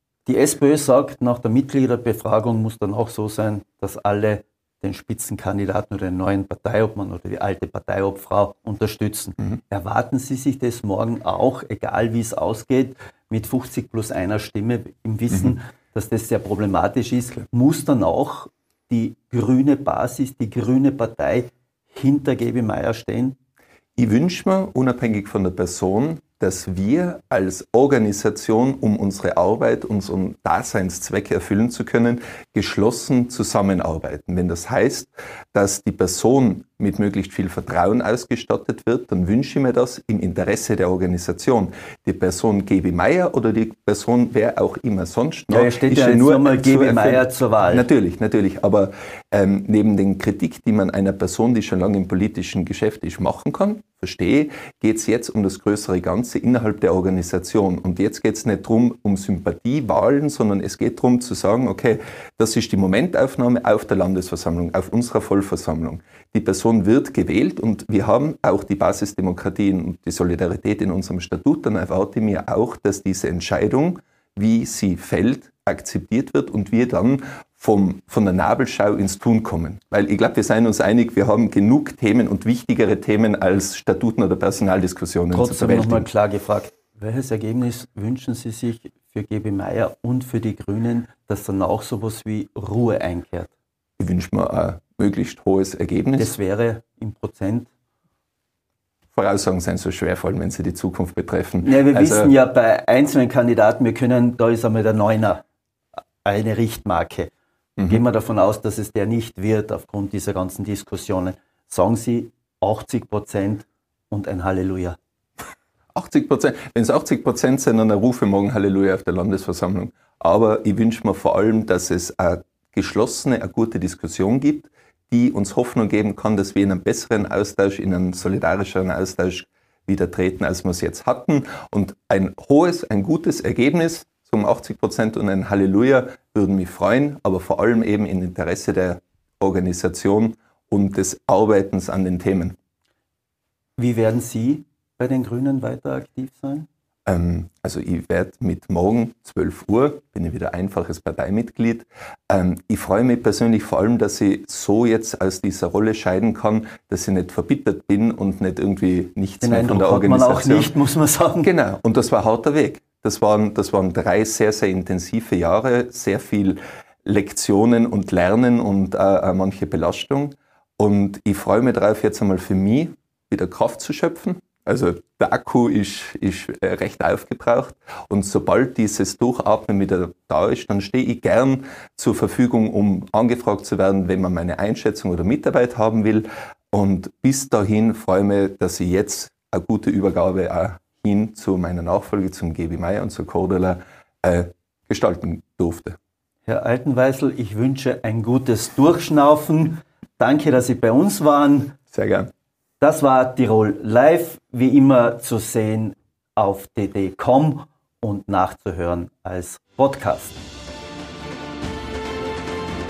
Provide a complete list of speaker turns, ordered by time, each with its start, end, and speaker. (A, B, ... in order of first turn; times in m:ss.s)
0:00.3-0:23.4 A
0:24.0-1:26.1 B
0:45.5-0:47.9 A
1:25.3-1:33.5 A
1:34.0-1:36.4 B
1:36.2-1:37.7 A
1:39.2-1:42.3 B
1:41.6-1:45.4 A
1:46.2-1:47.3 A
1:47.8-1:48.0 B
1:47.9-1:55.0 A
1:56.0-2:22.6 B
2:23.8-2:26.7 A
2:27.1-2:40.7 B
2:39.4-2:41.5 A
2:41.4-3:16.0 B
3:16.5-3:21.8 A
3:21.9-3:22.3 B
3:22.8-3:30.4 A